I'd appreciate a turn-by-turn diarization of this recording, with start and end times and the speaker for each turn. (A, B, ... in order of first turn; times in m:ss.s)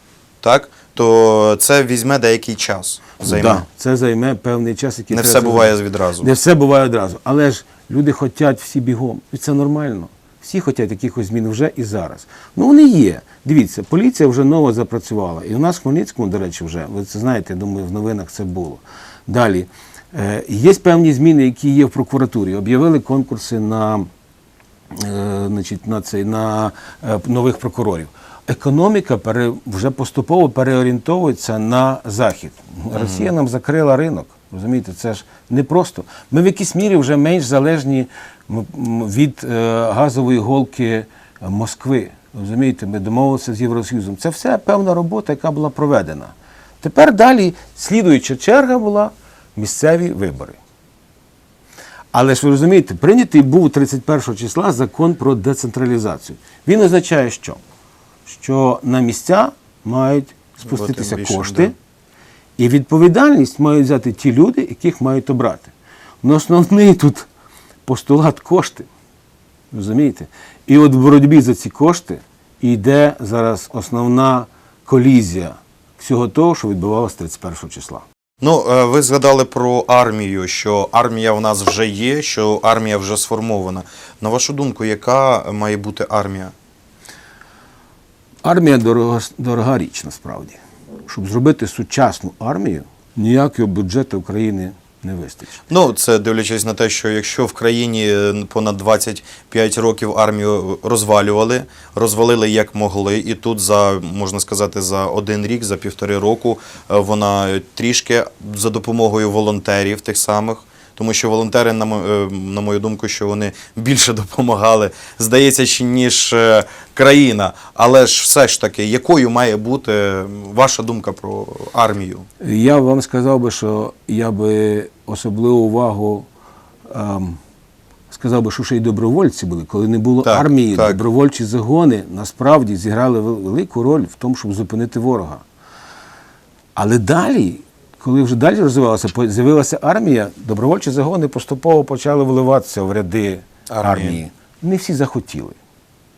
0:00.4-0:03.6 A
0:03.3-0:24.1 B
0:05.1-0:06.3 A
0:24.9-0:50.6 B
0:32.9-0:33.3 A
0:52.1-0:57.6 B
0:58.2-1:01.7 B
1:00.6-1:01.7 A
1:02.6-1:07.3 B
1:07.8-1:08.9 B
1:09.7-1:18.0 B
1:18.4-1:26.5 A
1:28.4-1:35.6 B
1:35.7-2:02.2 A
2:02.4-2:06.3 B
2:06.9-2:07.4 B
2:08.1-2:15.4 B
2:10.2-2:11.0 A
2:16.8-2:25.6 B
2:23.7-2:24.2 A